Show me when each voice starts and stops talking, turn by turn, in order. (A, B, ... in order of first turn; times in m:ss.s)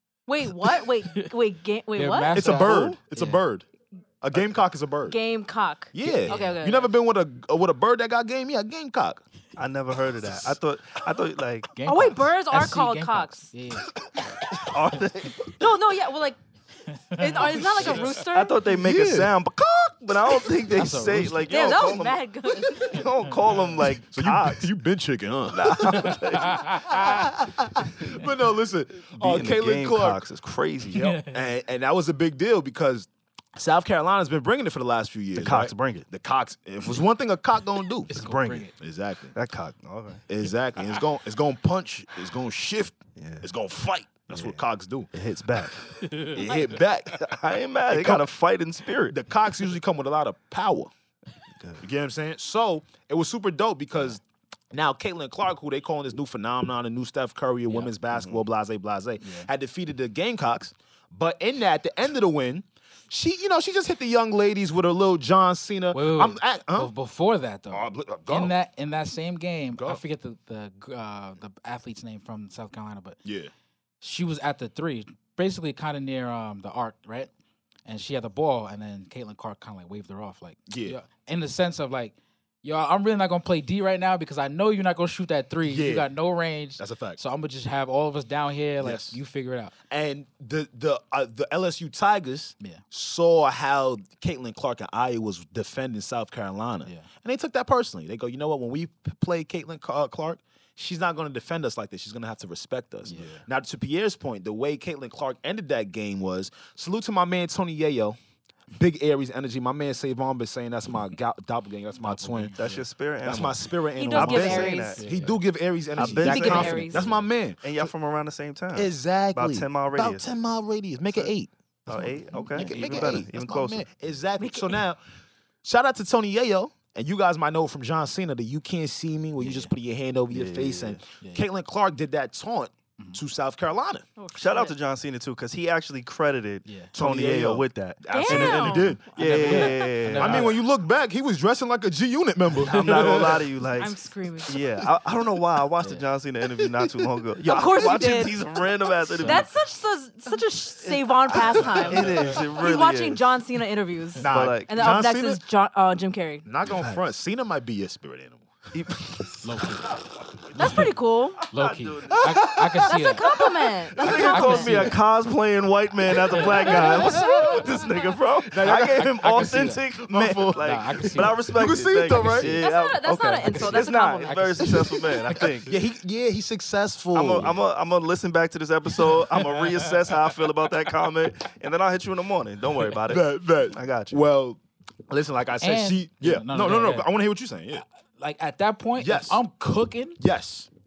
0:00.3-0:02.4 A
0:02.0-0:03.4 B
0:02.3-0:03.6 C
0:02.4-0:03.0 D
0:04.2-0:05.2 C
0:05.1-0:06.9 A
0:05.9-0:09.2 C
0:06.0-0:06.6 B
0:09.6-0:11.7 D
0:11.7-0:15.0 B
0:11.8-0:13.5 A
0:14.3-0:15.5 D
0:15.5-0:16.4 A
0:16.9-0:18.2 B
0:17.2-0:18.6 A
0:17.8-0:24.7 D
0:18.6-0:19.3 C
0:20.7-0:21.8 B
0:21.5-0:23.0 A
0:23.3-0:23.8 B
0:24.1-0:30.2 C
0:25.5-0:27.1 D
0:25.9-0:27.3 B
0:29.1-0:31.0 D
0:30.9-0:38.1 C
0:30.9-0:31.4 B
0:35.3-0:36.0 D
0:38.1-0:38.7 D
0:38.1-0:38.7 B
0:38.8-0:39.3 C
0:39.3-0:40.2 D
0:40.3-0:45.1 C
0:43.2-0:43.5 D
0:44.3-0:44.6 D
0:45.1-0:46.0 D
0:46.0-0:46.4 B
0:46.3-0:47.2 C
0:47.2-0:49.2 D
0:47.9-0:48.3 C
0:49.1-0:50.9 C
0:51.6-0:51.8 D
0:51.8-0:54.2 C
0:54.7-1:06.9 C
0:57.7-0:57.9 B
0:58.1-0:58.4 D
0:59.2-0:59.5 B
1:05.9-1:13.2 B
1:07.7-1:08.5 C
1:13.2-1:13.5 C
1:14.0-1:17.3 B
1:17.8-1:29.7 B
1:20.7-1:21.0 C
1:25.6-1:26.1 C
1:26.8-1:27.2 C
1:28.8-1:29.2 C
1:29.9-1:48.2 C
1:43.1-1:43.4 B
1:48.7-1:52.5 C
1:52.0-1:52.8 B
1:52.6-1:55.0 D
1:53.2-1:57.9 C
1:53.9-1:55.0 A
1:54.4-1:55.4 B
1:56.0-2:00.3 D
1:56.0-1:57.2 B
1:56.2-1:57.1 A
1:58.7-2:05.0 C
2:01.9-2:03.8 D
2:02.5-2:03.2 B
2:04.4-2:04.8 A
2:05.6-2:14.0 C
2:09.4-2:09.7 B
2:10.3-2:11.0 D
2:14.2-2:14.8 A
2:14.3-2:20.5 D
2:16.6-2:16.9 B
2:16.9-2:19.1 C
2:18.1-2:19.8 A
2:19.1-2:20.6 B
2:20.2-2:23.4 C
2:22.6-2:29.5 D
2:22.6-2:23.4 B
2:23.8-2:24.6 A
2:25.8-2:26.0 B
2:26.5-2:26.9 C
2:27.4-2:36.4 A
2:31.5-2:33.2 D
2:31.6-2:31.9 C
2:34.2-2:35.4 C
2:34.2-2:34.8 D
2:36.4-2:38.4 C
2:38.7-2:39.9 D
2:39.4-2:40.0 B
2:40.5-2:41.4 A
2:40.6-2:40.9 B
2:41.4-2:42.7 D
2:41.5-2:43.4 B
2:42.1-2:42.8 C
2:42.8-2:44.9 A
2:44.0-2:55.8 D
2:44.0-2:45.0 B
2:46.2-2:47.6 B
2:46.5-2:47.3 C
2:46.8-2:47.6 A
2:48.4-2:52.6 C
2:48.6-2:49.8 B
2:50.6-2:51.5 B
2:52.4-2:54.6 A
2:53.4-2:55.7 B
2:55.6-2:57.6 C
2:57.1-3:04.2 D
2:59.4-2:59.7 B
3:03.1-3:07.8 C
3:05.6-3:07.1 B
3:08.2-3:10.2 B
3:09.0-3:09.4 C
3:10.2-3:10.7 C